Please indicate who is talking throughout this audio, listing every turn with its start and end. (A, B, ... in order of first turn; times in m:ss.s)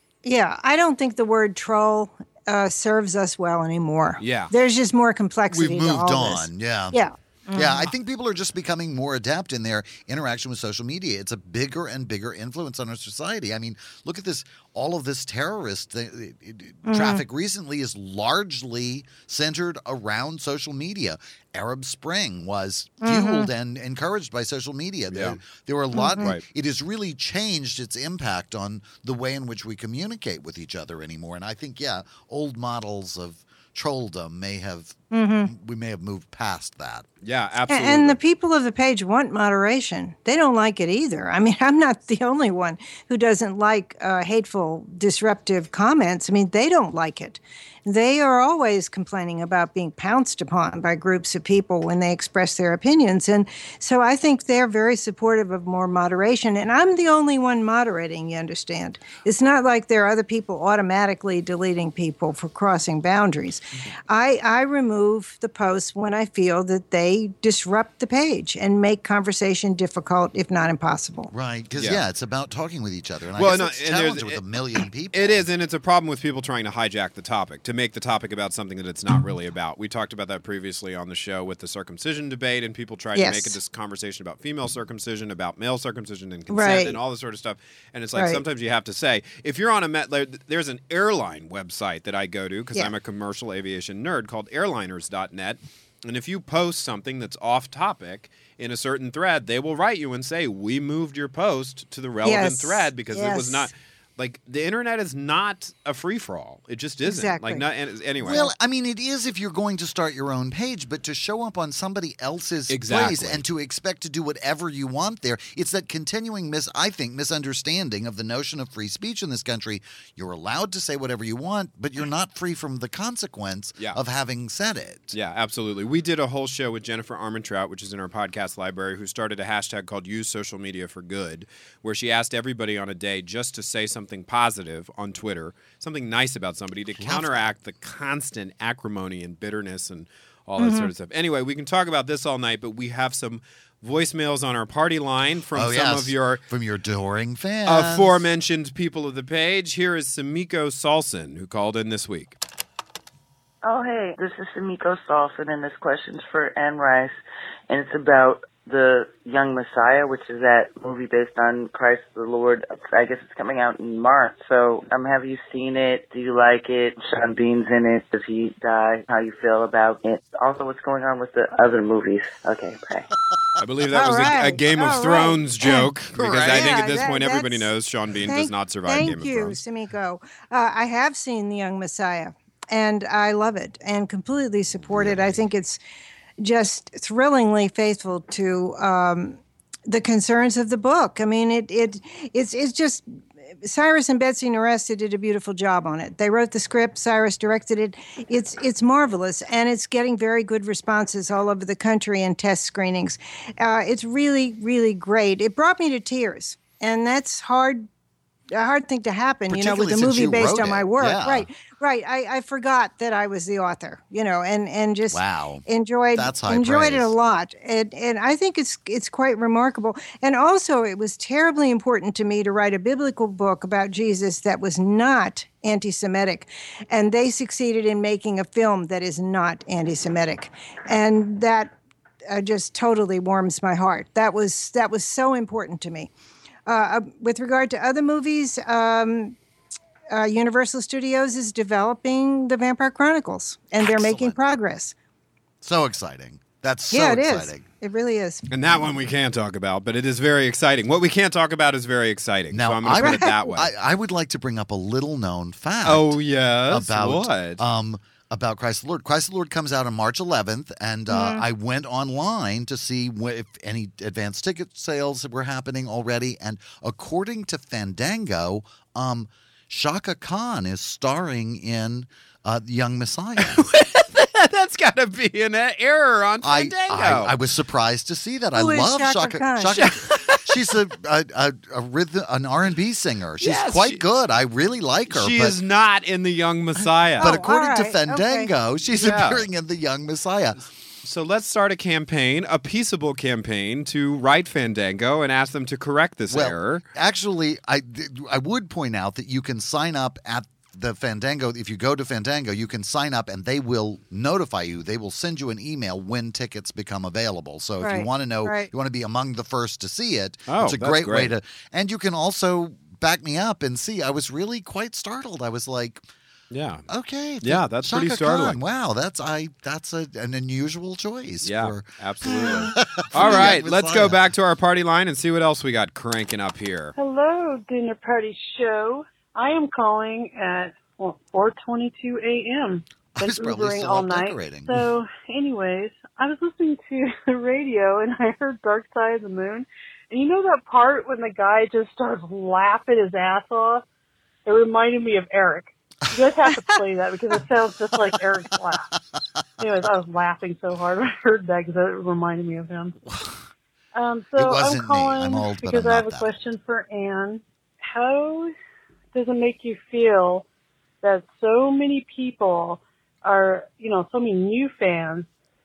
0:00.2-0:07.9 A
0:04.2-0:04.5 B
0:05.5-0:07.0 C
0:07.5-0:37.1 C
0:16.8-0:17.2 A
0:23.0-0:23.5 A
0:25.1-0:25.4 B
0:25.9-0:26.3 A
0:35.1-0:35.5 A
0:37.2-0:38.2 B
0:37.7-1:11.3 A
1:11.3-1:15.4 C
1:11.7-1:12.0 B
1:13.4-1:14.4 B
1:15.1-1:48.5 B
1:23.1-1:23.6 A
1:26.5-1:27.0 A
1:28.1-1:28.4 A
1:42.2-1:43.7 A
1:47.0-1:47.6 A
1:48.2-2:05.1 C
1:52.7-1:53.4 B
2:05.1-2:26.4 B
2:17.0-2:17.5 C
2:20.6-2:20.9 A
2:25.5-2:28.2 C
2:27.6-2:32.4 B
2:33.6-2:37.1 D
2:37.7-2:53.1 D
2:53.6-2:59.6 B
2:53.9-2:57.7 A
2:56.2-2:56.8 C
2:58.2-3:05.8 A
3:04.9-3:05.3 C
3:06.4-3:13.0 A
3:13.6-3:27.9 A
3:28.5-3:51.7 A
3:29.5-3:31.5 C
3:35.1-3:37.1 C
3:52.3-3:56.1 A
3:56.7-3:59.4 A
4:00.1-4:04.9 A
4:03.8-4:04.4 C
4:05.6-4:07.6 C
4:06.9-4:08.5 A
4:08.5-4:13.7 B
4:12.5-4:16.2 C
4:12.9-4:13.3 A
4:15.8-4:17.6 B
4:16.7-4:33.6 C
4:21.1-4:21.4 A
4:33.4-4:37.3 B
4:36.4-4:45.6 C
4:38.5-4:39.8 A
4:39.8-4:40.6 B
4:43.4-4:44.0 B
4:45.1-4:47.4 B
4:46.8-4:50.6 C
4:47.2-4:48.5 A
4:49.0-4:49.4 B
4:51.0-4:56.8 B
4:56.3-5:16.0 C
5:07.8-5:08.7 A
5:10.5-5:11.3 B
5:16.5-5:16.8 B
5:16.9-5:24.2 C
5:17.4-5:18.6 B
5:21.4-5:26.9 B
5:27.0-5:43.8 E
5:33.2-5:34.8 C
5:44.4-5:48.9 E
5:46.4-5:46.8 A
5:49.6-5:53.0 E
5:53.0-5:53.4 C
5:53.9-5:58.5 E
5:54.4-5:56.3 C
5:59.1-6:00.4 E
6:01.0-6:05.3 E